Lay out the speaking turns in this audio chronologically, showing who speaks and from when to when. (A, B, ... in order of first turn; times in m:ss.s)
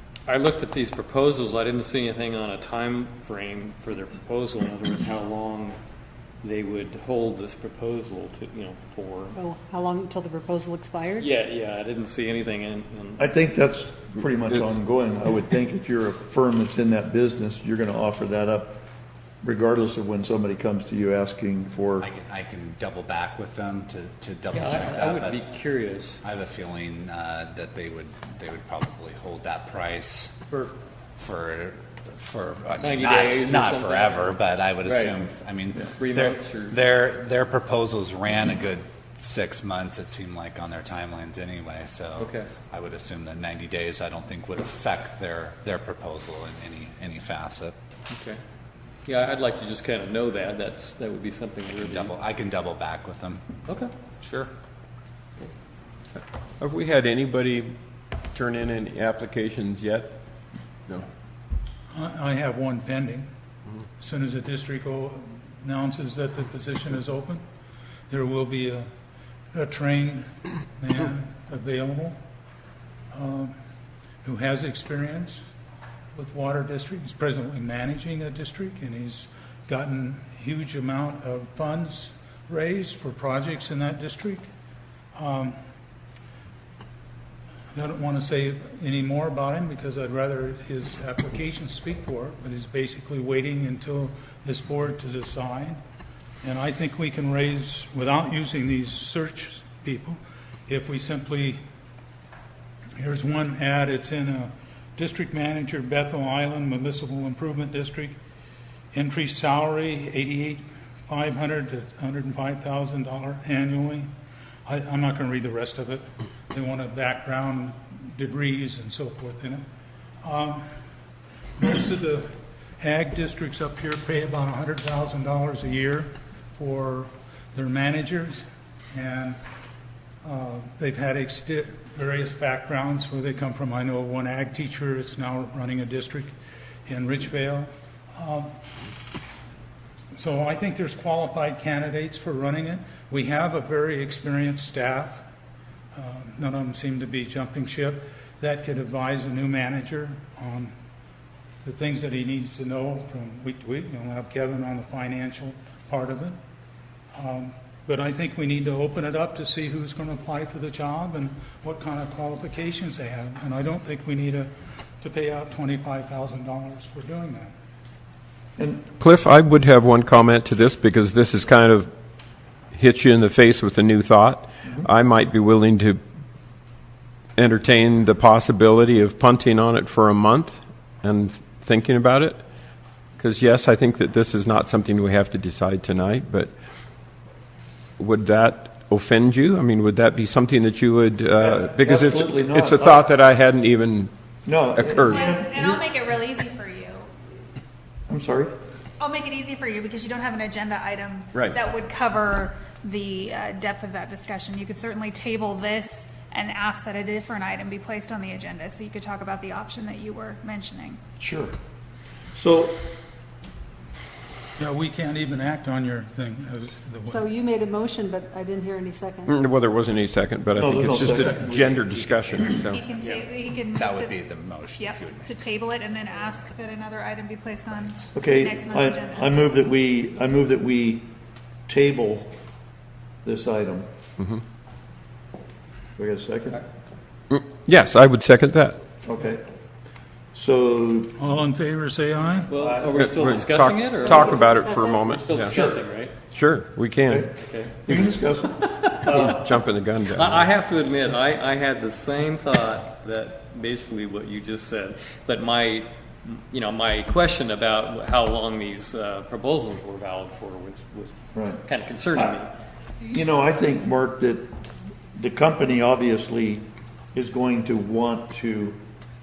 0:00.2-0:05.8 A
0:06.4-0:09.4 A
0:09.3-0:11.3 B
0:11.2-0:13.3 A
0:13.2-0:18.8 C
0:19.4-0:22.1 C
0:22.0-0:25.4 D
0:24.5-0:26.2 A
0:26.2-0:30.3 D
0:31.2-0:47.7 D
0:32.8-0:35.2 A
0:35.8-0:36.8 A
0:42.2-0:42.5 A
0:48.1-0:48.4 A
0:49.0-0:52.2 A
0:51.8-0:53.4 D
0:53.7-0:53.9 A
0:54.2-0:54.5 D
0:56.6-0:57.7 E
0:58.3-1:00.2 E
1:01.9-1:03.2 F
1:04.0-1:07.4 F
1:08.1-1:08.8 F
1:09.5-1:10.2 F
1:10.8-1:12.2 F
1:13.1-1:13.5 F
1:14.2-1:15.4 F
1:16.2-1:24.4 F
1:25.2-1:25.5 F
1:27.7-1:35.8 F
1:36.4-1:40.2 F
1:40.7-1:41.6 F
1:43.0-1:48.1 F
1:48.9-1:54.0 F
1:54.7-1:59.6 F
2:00.2-2:00.6 F
2:01.6-2:02.2 F
2:02.8-2:08.4 F
2:08.9-2:09.3 F
2:10.2-2:16.3 F
2:16.9-2:17.6 F
2:18.2-2:18.5 F
2:20.2-2:25.2 F
2:26.0-2:30.7 F
2:31.6-2:36.4 F
2:37.1-2:44.5 F
2:45.0-2:47.5 F
2:48.6-2:48.8 C
2:49.0-2:51.9 E
2:52.7-2:56.0 E
2:57.4-3:02.4 E
3:03.2-3:06.5 E
3:08.0-3:14.1 E
3:11.4-3:13.1 C
3:14.4-3:15.8 C
3:14.7-3:15.3 E
3:15.1-3:17.1 G
3:18.1-3:18.5 C
3:19.0-3:31.0 G
3:31.2-3:31.5 C
3:32.3-3:32.9 C
3:34.6-3:37.2 F
3:37.1-3:39.4 B
3:39.3-3:42.8 E
3:40.6-3:42.5 C
3:42.7-3:44.2 G
3:43.7-3:45.5 D
3:44.7-3:49.4 G
3:47.7-3:48.0 D
3:48.1-3:51.1 C
3:51.7-3:52.3 C
3:53.2-3:53.9 C
3:56.0-3:56.6 C
3:57.3-3:58.8 E
3:59.0-3:59.4 C
4:00.3-4:01.2 C
4:01.2-4:02.5 F
4:02.5-4:03.0 C
4:02.5-4:06.1 A
4:02.9-4:05.6 E
4:04.0-4:05.1 B
4:05.5-4:05.8 C
4:06.3-4:07.3 E
4:07.4-4:07.8 A
4:07.8-4:09.4 C
4:09.0-4:10.5 E
4:10.1-4:22.5 A
4:21.3-4:22.4 C
4:23.0-4:24.5 C
4:25.2-4:28.8 C